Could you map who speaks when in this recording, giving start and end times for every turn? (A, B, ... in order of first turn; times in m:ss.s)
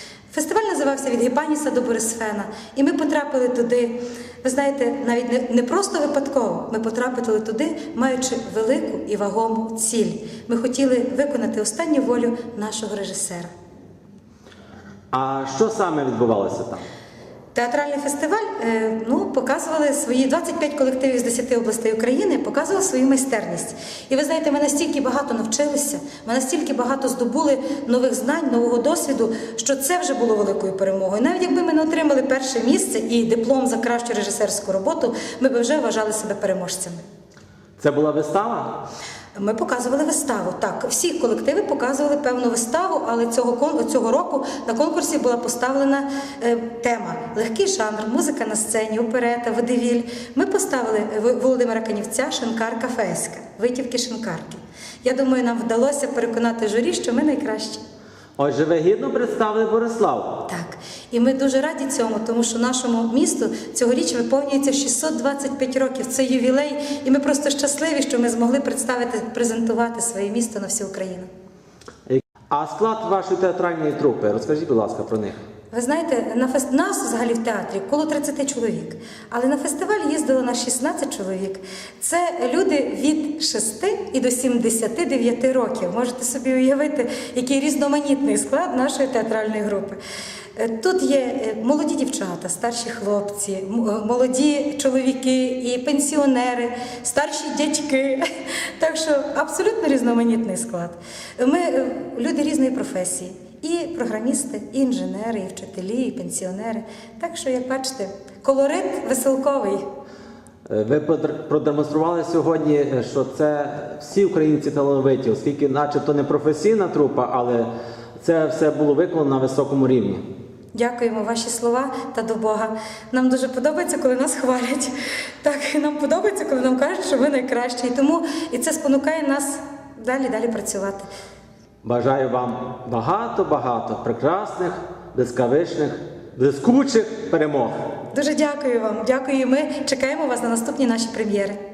0:00.3-0:13.5 A
0:15.1-0:16.8 B
0:17.5-0:37.0 A
0:37.8-0:38.9 B
0:39.4-0:57.8 A
0:58.4-1:00.4 B
1:00.5-1:11.3 A
1:12.1-1:15.4 B
1:15.7-1:30.0 A
1:30.6-1:49.8 A
1:50.6-2:00.2 B
2:00.7-2:11.1 A
2:11.8-2:17.8 B
2:18.1-2:21.6 A